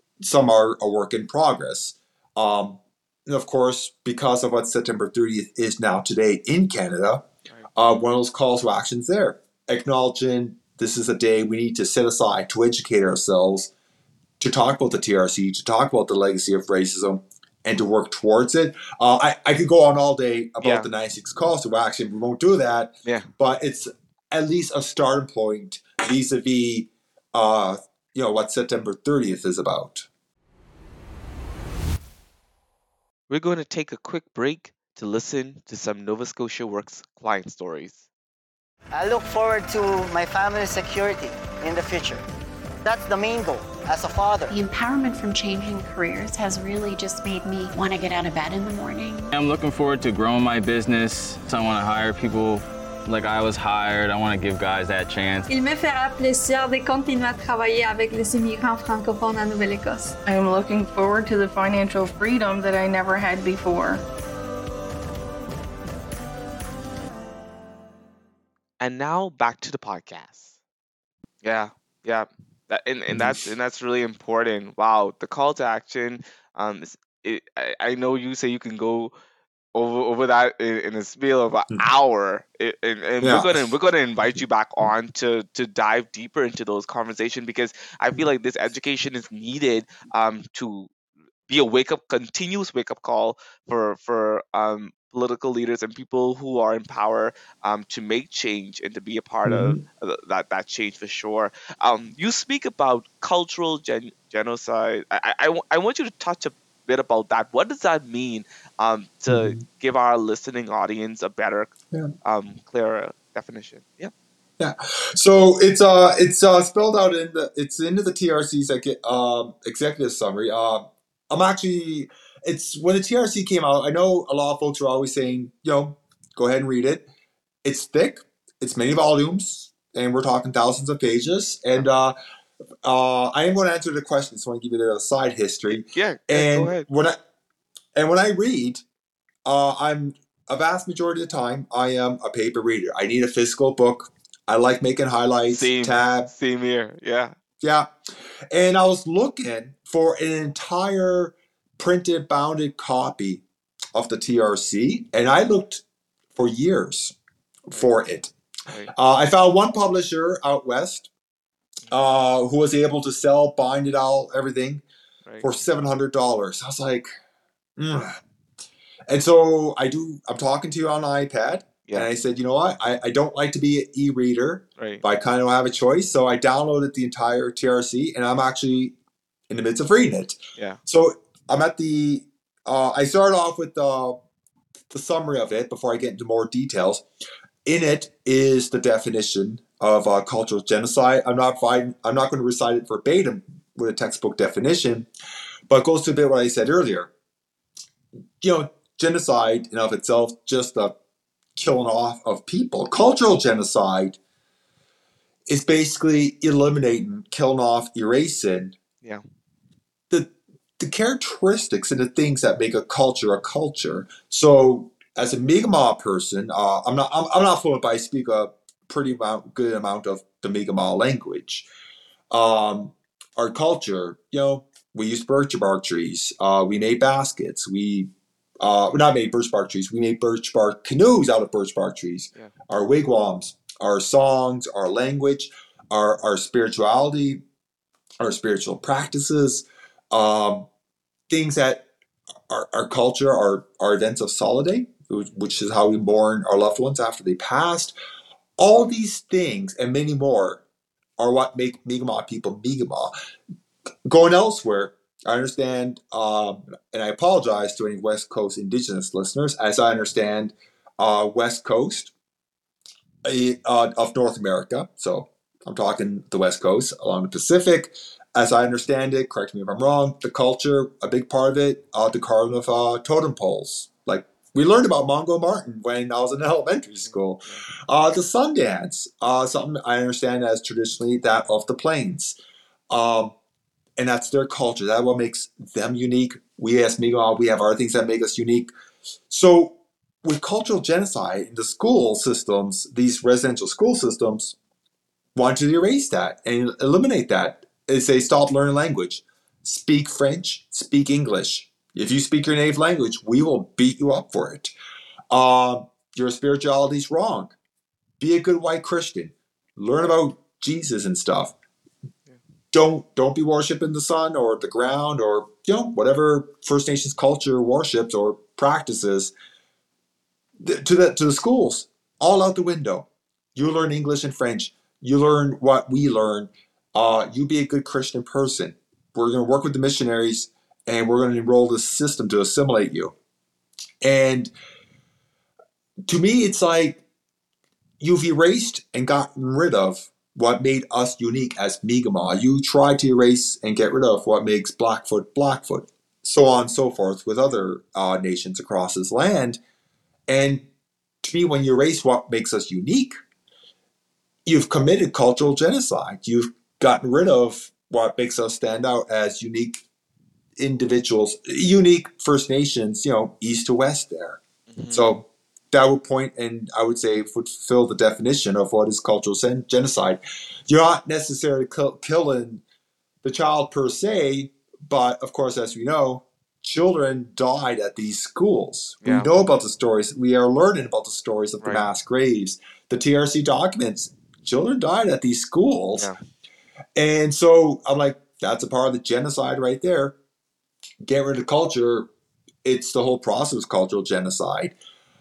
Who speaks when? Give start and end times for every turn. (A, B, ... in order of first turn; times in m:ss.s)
0:00.2-0:13.7 A
0:14.4-0:30.0 A
0:20.6-0:20.9 B
0:23.0-0:23.3 B
0:33.3-0:38.0 B
0:38.9-0:42.2 C
0:42.8-0:44.5 C
0:44.5-0:49.3 D
0:49.3-0:55.5 E
0:55.5-1:00.2 F
1:00.2-1:04.0 G
1:08.8-1:10.5 B
1:11.4-1:19.1 B
1:13.1-1:13.4 A
1:19.7-1:30.9 B
1:23.2-1:23.6 A
1:31.5-1:51.7 B
1:39.4-1:39.8 A
1:49.3-1:49.6 A
1:52.2-1:54.1 B
1:54.6-2:07.0 A
2:07.6-2:12.2 A
2:12.8-2:17.2 A
2:15.9-2:16.9 B
2:17.9-2:18.8 A
2:19.4-2:26.3 A
2:25.5-2:27.3 B
2:27.6-2:27.9 A
2:28.5-2:35.8 A
2:36.3-2:37.2 A
2:37.7-2:38.3 A
2:38.9-2:41.1 A
2:41.9-2:44.8 A
2:45.4-2:47.1 A
2:47.8-2:48.2 A
2:49.1-2:59.0 A
2:54.8-2:55.0 B
2:59.5-3:04.2 A
3:04.9-3:07.0 A
3:07.6-3:15.1 A
3:15.7-3:17.1 A
3:18.4-3:21.0 A
3:21.6-3:24.2 A
3:25.5-3:28.8 A
3:30.1-3:41.6 A
3:42.3-3:57.4 A
3:58.2-4:00.7 A
4:01.3-4:01.8 A
4:02.5-4:07.9 A
4:08.6-4:10.6 A
4:11.2-4:13.1 A
4:14.0-4:22.1 A
4:23.2-4:42.4 A
4:37.1-4:37.6 B
4:42.9-4:43.3 A
4:44.0-4:48.7 A
4:49.3-4:54.6 A
4:55.3-5:04.7 A
5:05.3-5:07.5 A
5:08.2-5:11.5 A
5:12.7-5:19.3 A
5:20.6-5:33.1 A
5:34.0-5:34.5 A
5:36.1-5:37.0 A
5:38.0-5:49.6 A
5:50.3-5:50.7 A
5:51.2-5:53.2 A
5:54.4-5:59.8 A
6:00.6-6:04.4 A
6:04.7-6:05.1 B
6:04.9-6:12.6 A
6:13.2-6:26.1 A
6:19.0-6:19.3 B
6:26.9-6:30.2 A
6:31.0-6:32.1 A
6:32.6-6:34.7 A